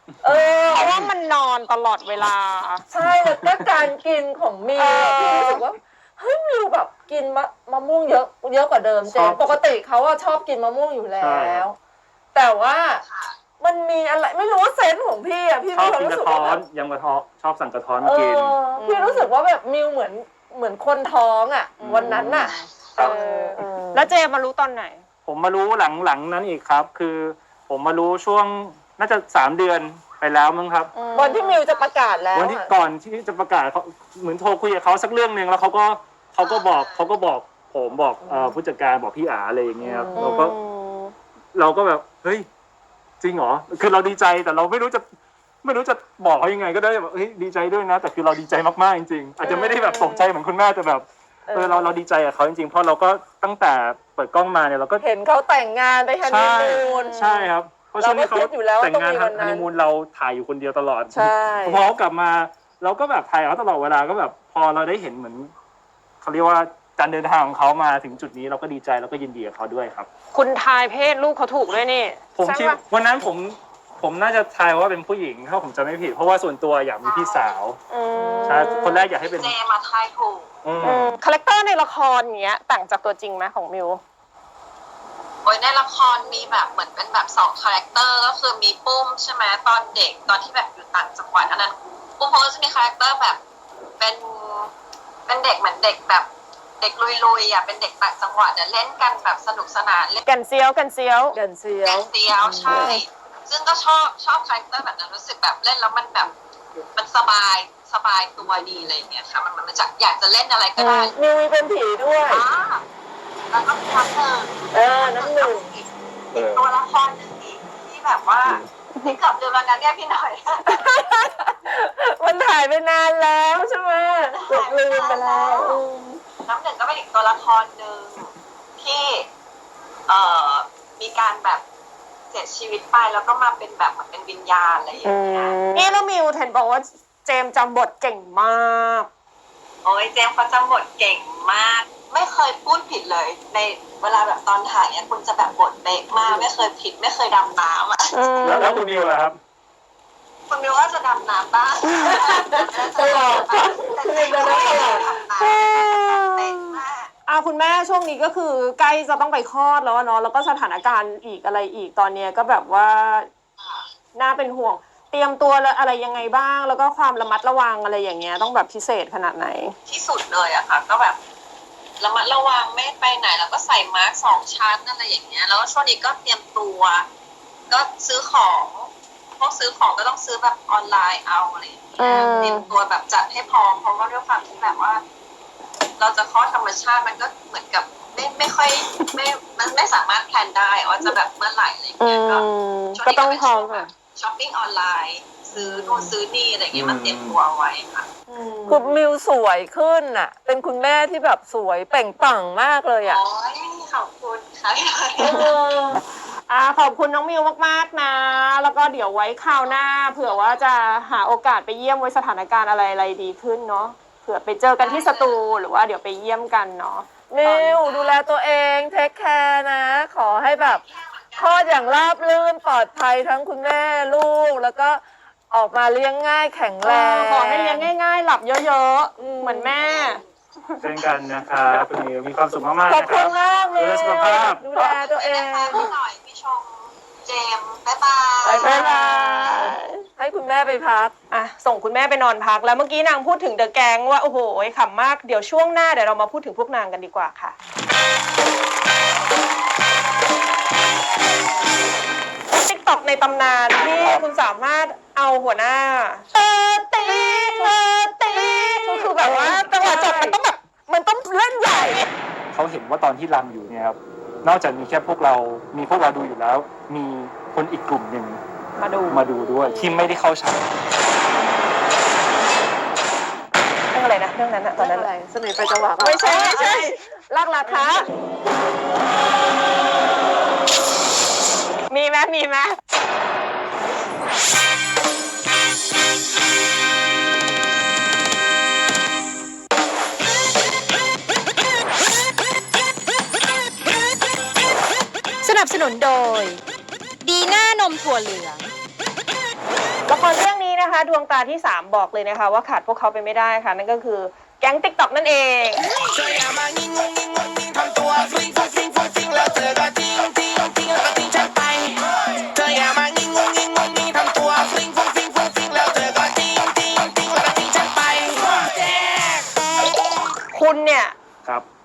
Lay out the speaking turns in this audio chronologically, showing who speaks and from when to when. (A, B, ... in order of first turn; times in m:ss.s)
0:00.2-0:01.0 A
0:00.2-0:00.9 B
0:00.7-0:02.8 C
0:02.9-0:11.8 A
0:03.0-0:03.7 B
0:04.8-0:05.6 C
0:09.1-0:09.5 B
0:11.2-0:11.6 B
0:12.3-0:13.0 A
0:13.0-0:13.4 D
0:13.6-0:16.6 A
0:15.7-0:18.6 B
0:18.0-0:24.1 A
0:18.8-0:19.3 C
0:21.8-0:25.0 C
0:21.8-0:23.2 B
0:25.2-0:30.9 B
0:31.0-0:31.6 C
0:31.1-0:32.7 A
0:32.4-0:40.6 B
0:36.4-0:37.0 D
0:38.2-0:38.5 A
0:39.8-0:40.4 A
0:40.2-0:41.2 C
0:41.5-0:42.5 B
0:43.2-0:45.0 B
0:45.6-0:55.0 B
0:49.4-0:50.2 C
0:49.4-0:49.8 A
0:51.5-0:52.0 A
0:55.0-0:57.3 A
0:56.2-1:05.5 B
0:56.6-0:57.5 C
0:58.0-0:59.7 A
1:01.1-1:01.8 A
1:06.2-1:10.1 B
1:10.3-1:12.8 C
1:12.4-1:17.8 B
1:17.0-1:17.6 D
1:17.9-1:19.0 C
1:18.1-1:19.0 A
1:18.4-1:19.6 B
1:19.2-1:20.5 D
1:20.6-1:21.2 B
1:20.8-1:24.0 C
1:25.4-1:33.4 D
1:34.0-1:34.7 D
1:35.3-1:36.3 D
1:36.8-1:40.2 D
1:40.3-1:41.4 C
1:41.3-1:43.0 A
1:41.8-1:46.3 D
1:42.6-1:43.0 C
1:47.0-1:51.1 D
1:50.8-1:52.4 A
1:52.3-1:52.8 D
1:53.5-2:01.0 D
1:54.7-1:55.7 A
2:00.7-2:06.2 A
2:04.3-2:05.8 D
2:06.4-2:09.3 D
2:10.1-2:11.6 D
2:12.3-2:15.7 D
2:15.0-2:19.1 C
2:19.8-2:28.4 D
2:28.1-2:28.8 C
2:28.4-2:29.4 B
2:30.5-2:37.1 D
2:31.9-2:36.4 A
2:37.3-2:43.3 C
2:43.6-2:43.8 D
2:44.2-2:49.8 C
2:49.9-2:51.2 D
2:52.0-2:57.1 D
2:57.7-3:05.0 D
3:02.0-3:02.7 A
3:02.0-3:02.7 C
3:06.0-3:18.1 D
3:12.0-3:13.9 C
3:12.0-3:12.4 A
3:15.6-3:16.1 A
3:16.7-3:17.4 B
3:18.3-3:19.0 C
3:18.7-3:23.2 A
3:23.1-3:25.5 D
3:25.2-3:26.0 A
3:25.2-3:25.5 C
3:26.5-3:37.8 C
3:30.2-3:30.6 D
3:34.8-3:35.4 D
3:37.3-3:40.8 A
3:37.8-3:38.2 D
3:40.6-3:42.0 D
3:41.4-3:47.9 A
3:46.8-3:50.8 C
3:49.2-3:49.8 A
3:49.8-3:50.2 D
3:50.8-3:54.6 B
3:52.8-3:55.9 A
3:54.0-3:54.5 C
3:54.8-3:58.8 D
3:58.4-4:01.1 A
3:58.5-4:00.0 C
4:01.3-4:07.6 C
4:12.5-4:20.6 C
4:14.0-4:14.2 B
4:16.3-4:22.1 A
4:22.5-4:28.4 B
4:28.8-4:29.9 C
4:29.1-4:30.7 B
4:33.9-4:35.1 C
4:34.8-4:37.0 A
4:36.0-4:38.0 C
4:41.9-4:42.8 C
4:55.4-4:56.6 E
4:57.2-4:58.7 E
5:00.1-5:05.8 C
5:06.2-5:11.9 F
5:12.6-5:19.4 F
5:20.5-5:21.2 C